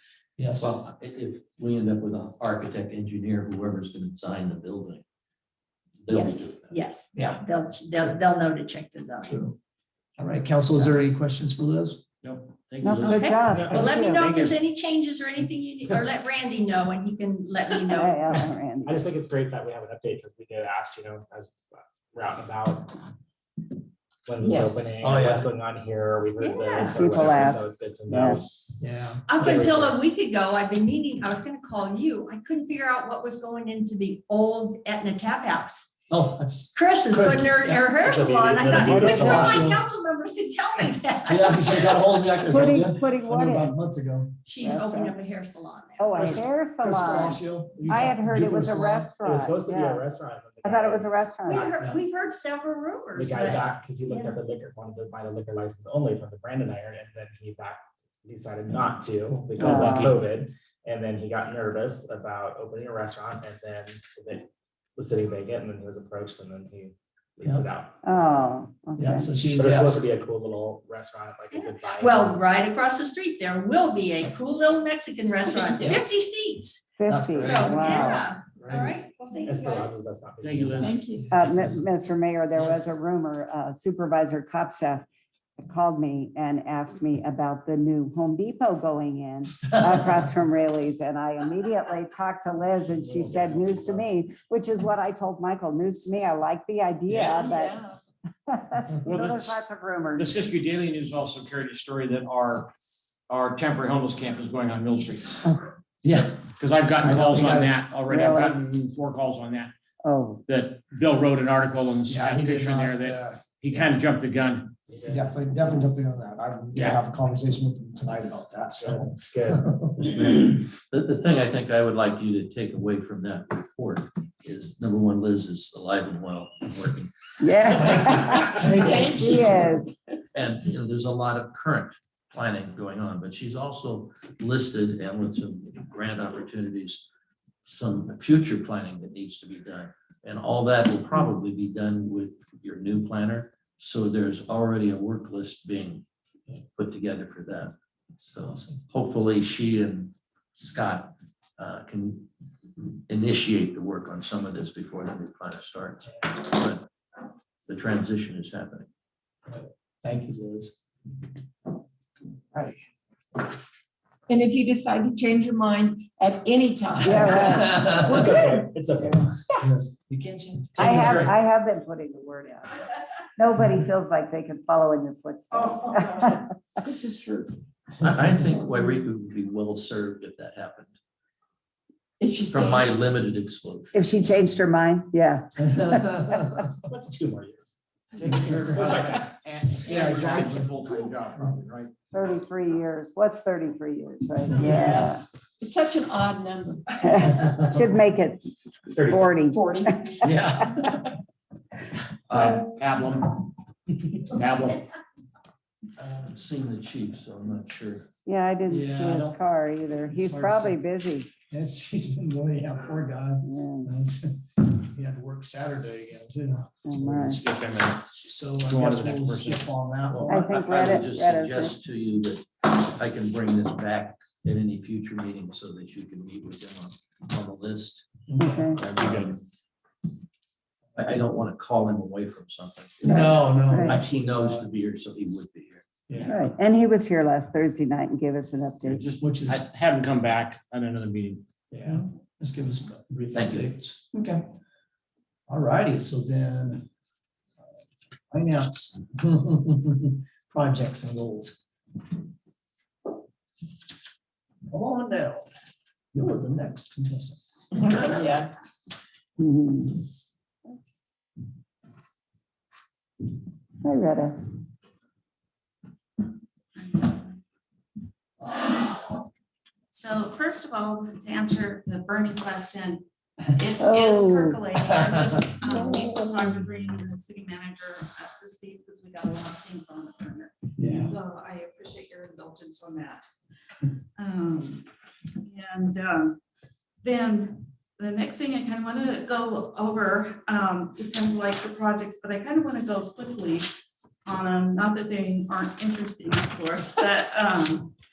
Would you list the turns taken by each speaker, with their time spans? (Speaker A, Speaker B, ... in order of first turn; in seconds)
Speaker A: 0.4-0.8, 7.1-7.4, 9.2-9.6, 10.2-12.0, 25.0-25.5, 28.8-29.6, 36.1-37.9, 38.6-39.8, 41.2-44.4, 46.1-49.1, 69.0-70.0, 77.1-78.9, 82.5-82.8, 106.0-106.4, 107.0-107.8, 112.1-113.5, 115.0-120.2, 127.9-129.5, 148.4-148.8, 156.1-156.4, 159.4-160.8, 166.9-168.2, 169.6-171.3, 185.6-186.7, 188.3-188.9, 189.9-190.7, 200.2-200.8, 206.0-206.4, 208.7-209.4, 210.1-210.8, 211.5-217.4, 218.1-220.5, 228.3-228.8, 233.0-234.7, 236.1-236.4, 239.2-239.6, 241.7-244.2, 245.5-246.8, 248.3-251.6, 254.7-255.5, 256.1-258.3, 280.8-281.1
Speaker B: 0.6-5.0, 6.0-6.8, 120.0-127.1, 127.6-128.2, 130.3-137.1, 137.6-146.0, 146.8-156.8, 157.7-158.9, 178.0-180.9, 182.5-184.3, 206.2-208.1, 220.1-228.1, 228.8-229.4, 230.9-235.9, 243.3-243.8
Speaker C: 6.1-9.4, 10.7-10.9, 13.1-18.2, 26.4-27.1, 29.3-35.9, 36.7-42.2, 44.4-46.3, 51.5-54.3, 71.5-76.8, 77.4-79.9
Speaker D: 12.2-14.6, 59.6-60.1, 80.4-81.0, 99.0-99.5, 100.2-102.7, 103.3-105.5, 106.6-109.7, 110.5-114.7, 116.7-117.0, 188.1-191.9, 202.3-203.4, 204.2-204.8, 217.1-218.1, 218.7-219.7, 228.8-229.4, 238.8-241.4
Speaker E: 12.8-14.3, 17.9-19.1, 26.8-28.4, 42.5-43.7, 44.6-45.1, 46.0-50.0, 50.6-51.7, 59.6-60.1, 68.0-69.3, 77.0-78.3, 81.3-85.0, 85.6-97.8, 98.5-100.4, 105.4-105.7, 108.1-108.6, 110.0-110.4, 127.4-129.9, 167.0-168.4, 169.0-169.2, 170.8-172.8, 173.3-176.4, 183.9-186.2, 192.1-195.2, 197.0-198.4, 199.0-200.2, 208.2-211.3, 213.4-213.9, 216.8-217.4, 220.3-221.8, 228.4-228.8, 233.0-234.0, 236.2-239.0, 259.4-260.0, 263.8-264.4, 273.8-274.6
Speaker F: 13.5-13.8, 18.9-23.0, 24.2-28.7, 29.4-30.0, 38.0-39.8, 49.2-51.9, 53.1-68.0, 69.6-72.5, 79.4-81.0, 114.9-115.2, 118.8-119.6, 168.0-169.3, 186.8-187.8, 188.8-189.1, 198.9-199.3
Speaker G: 24.4-25.0, 75.5-76.1, 79.3-79.8, 80.8-81.2, 97.3-97.8, 128.4-129.7, 164.3-168.6, 170.2-171.0, 175.5-177.6, 182.2-183.0, 189.9-190.4, 194.6-197.6, 199.1-200.2, 244.1-244.4
Speaker H: 266.8-267.4, 269.9-283.2, 284.2-284.9, 285.4-286.4, 287.0-293.7, 294.2-297.9